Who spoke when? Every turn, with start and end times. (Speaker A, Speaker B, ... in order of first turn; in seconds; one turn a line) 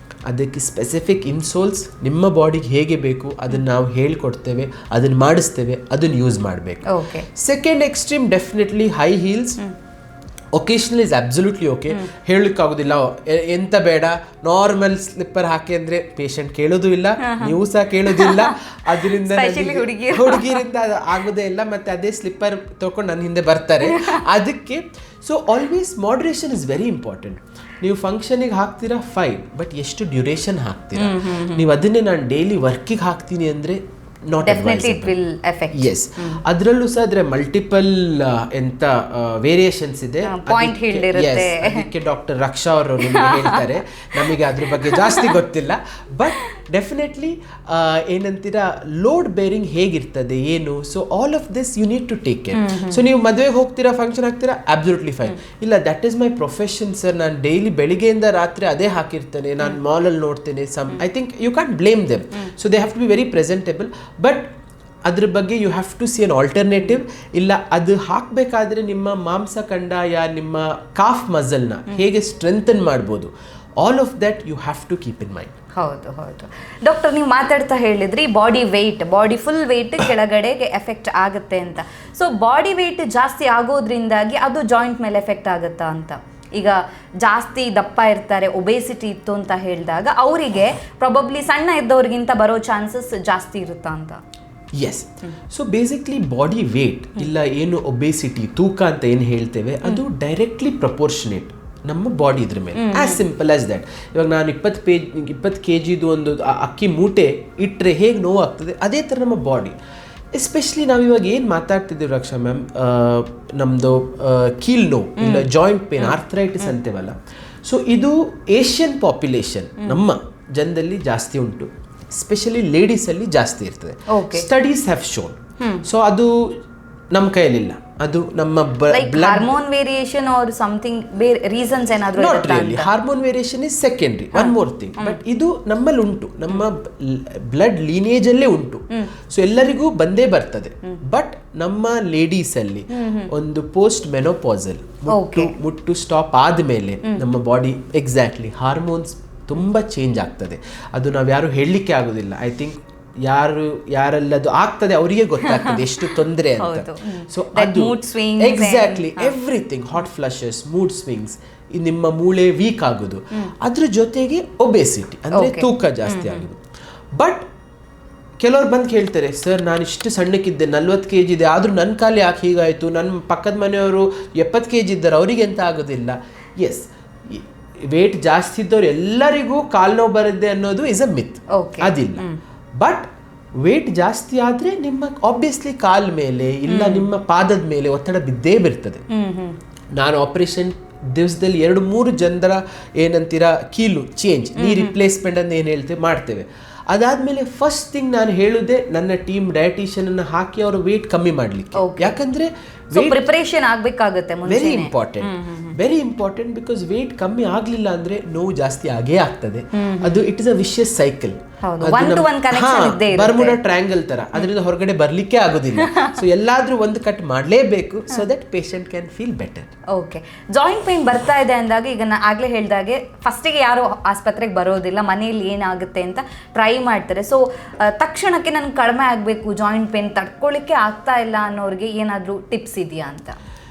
Speaker A: 0.3-9.6
Speaker B: 6.9-7.3
Speaker A: 10.6-35.1
Speaker B: 17.2-17.6
Speaker B: 18.1-20.7
Speaker B: 23.8-24.2
Speaker B: 30.9-31.7
Speaker B: 34.4-36.4
Speaker A: 35.7-64.5
Speaker B: 40.2-41.9
Speaker B: 43.0-45.3
Speaker B: 52.5-53.0
Speaker A: 65.0-75.5
Speaker B: 75.7-94.2
Speaker A: 94.8-109.8
Speaker B: 102.8-103.2
Speaker A: 110.3-126.5
Speaker B: 115.2-115.5
Speaker B: 124.1-124.5
Speaker A: 127.1-129.6
Speaker B: 128.9-132.9
Speaker A: 132.2-166.6
Speaker B: 134.3-135.2
Speaker B: 142.9-143.3
Speaker B: 145.1-145.6
Speaker B: 155.4-159.3
Speaker B: 165.3-166.4
Speaker A: 167.2-167.5
Speaker A: 168.4-182.3
Speaker B: 181.5-182.4
Speaker A: 182.8-183.1
Speaker A: 183.6-189.0
Speaker B: 186.7-187.1
Speaker B: 189.1-189.6
Speaker A: 189.9-203.2
Speaker B: 194.6-194.9
Speaker B: 201.8-202.2
Speaker B: 202.9-205.8
Speaker A: 204.5-219.7
Speaker B: 209.7-210.2
Speaker B: 211.6-213.6
Speaker B: 215.8-216.2
Speaker B: 219.9-233.4